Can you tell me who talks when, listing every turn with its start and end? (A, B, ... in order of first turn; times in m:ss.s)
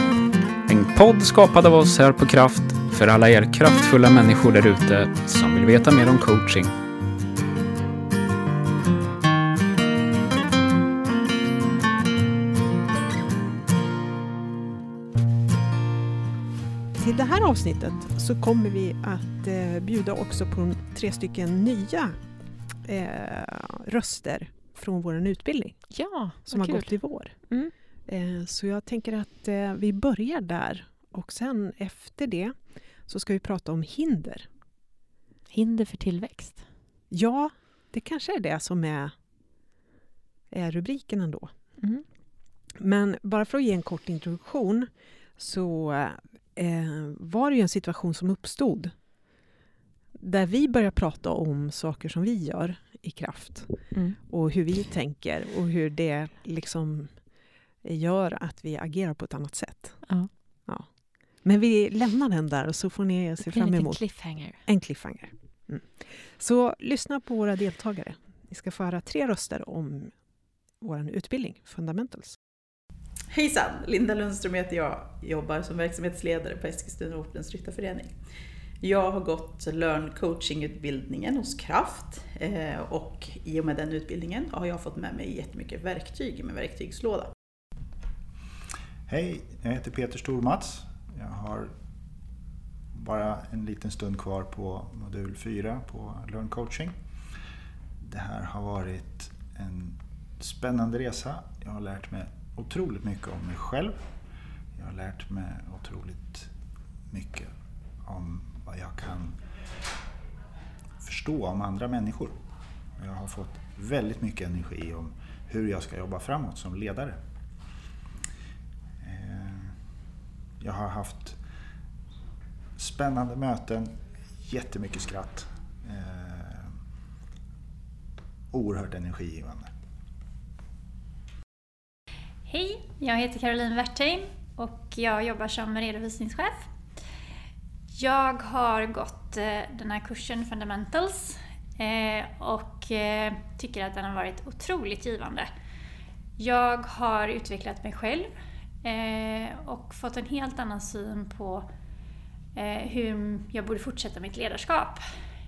0:00.7-0:06.7 A
0:17.0-0:22.2 B
0:22.8-0:34.5 B
0:25.9-0:27.7 C
0:35.5-0:36.7 C
0:37.1-0:39.5 B
0:40.5-0:41.9 B
0:41.8-0:42.0 C
0:42.8-0:49.3 B
0:50.2-1:12.4 B
0:53.9-0:54.2 C
1:03.4-1:04.6 C
1:13.3-1:18.3 D
1:18.8-1:27.3 D
1:29.1-1:31.8 E
1:32.9-1:37.0 E
1:38.0-1:44.1 E
1:44.8-1:46.5 E
1:47.1-1:49.4 E
1:51.0-1:52.4 E
1:53.0-1:57.2 E
1:59.0-1:59.9 E
2:00.6-2:01.4 E
2:02.8-2:06.8 E
2:08.5-2:09.7 E
2:12.5-2:16.7 F
2:18.0-2:25.5 F
2:26.4-2:31.7 F
2:32.6-2:35.1 F